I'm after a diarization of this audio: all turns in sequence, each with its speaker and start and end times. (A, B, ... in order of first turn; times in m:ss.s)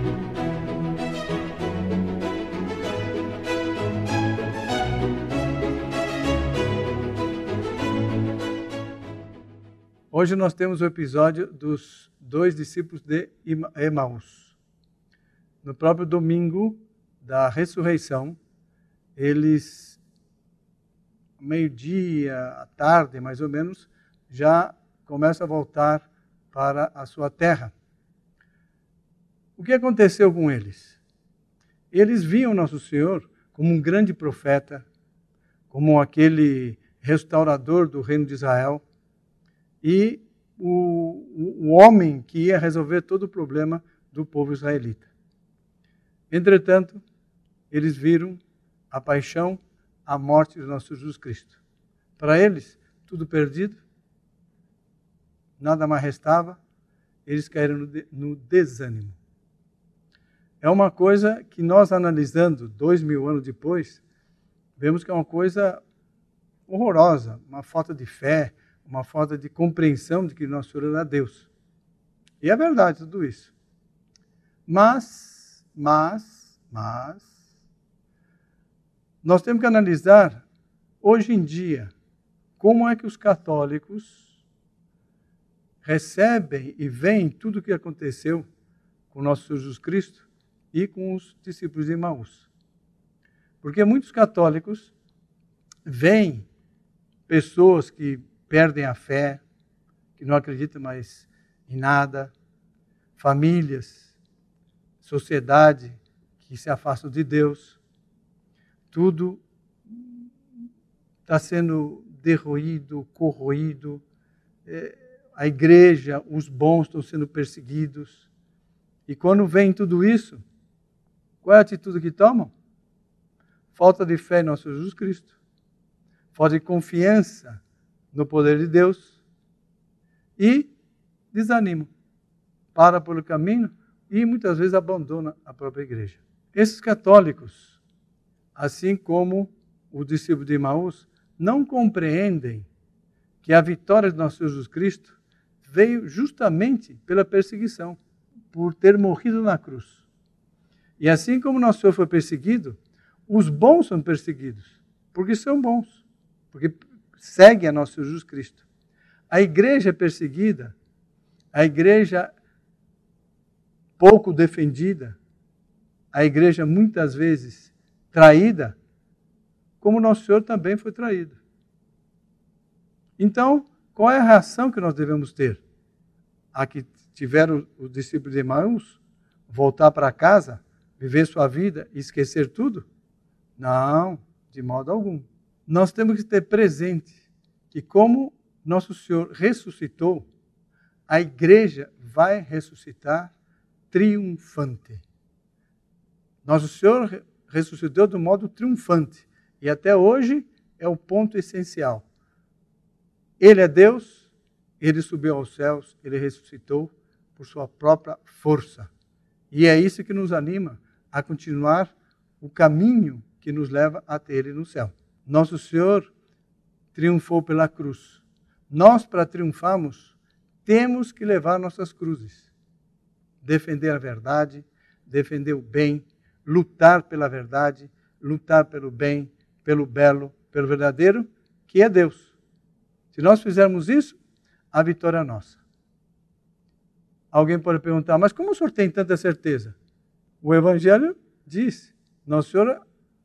0:10.1-0:14.6 A
0:15.6-0:18.4 A
0:19.2-0:20.0 A
0:21.4-0:27.7 A
0:29.6-0:31.0 A
0:31.9-0:34.8 A
0:35.7-0:38.8 A
0:39.8-0:45.1 A
0:46.3-0:47.0 A
0:47.7-0:51.6 A
0:52.2-0:53.8 A
0:55.6-0:56.6 A
0:57.2-0:59.2 A
1:00.6-1:04.0 A
1:04.8-1:05.8 A
1:06.7-1:11.5 A
1:12.4-1:13.5 A
1:14.7-1:17.3 A
1:19.2-1:20.4 A
1:21.0-1:21.9 A
1:22.6-1:24.3 A
1:25.8-1:28.4 A
1:29.1-1:32.5 A
1:33.6-1:34.9 A
1:35.8-1:36.5 A
1:37.3-1:39.4 A
1:40.2-1:42.3 A
1:43.2-1:44.1 A
1:45.0-1:47.8 A
1:48.9-1:50.2 A
1:51.2-1:54.0 A
1:54.6-1:58.2 A
1:59.1-2:00.4 A
2:01.4-2:02.5 A
2:03.7-2:05.4 A
2:06.3-2:07.6 A
2:08.1-2:09.2 A
2:10.4-2:10.7 A
2:11.3-2:11.9 A
2:12.7-2:17.8 A
2:18.5-2:22.7 A
2:23.4-2:28.0 A
2:28.5-2:30.0 A
2:31.0-2:32.8 A
2:33.3-2:38.6 A
2:39.3-2:40.7 A
2:41.5-2:42.3 A
2:44.0-2:45.2 A
2:46.1-2:48.8 A
2:49.8-2:51.4 A
2:53.2-2:55.6 A
2:56.5-2:59.0 A
2:59.5-3:02.8 A
3:03.6-3:07.2 A
3:07.7-3:10.3 A
3:11.1-3:13.3 A
3:13.9-3:15.0 A
3:16.4-3:22.0 A
3:23.4-3:28.9 A
3:29.5-3:36.1 A
3:36.9-3:40.1 A
3:40.6-3:42.5 A
3:43.4-3:52.3 A
3:53.1-3:54.2 A
3:54.7-3:55.6 A
3:57.3-3:59.7 A
4:00.4-4:02.8 A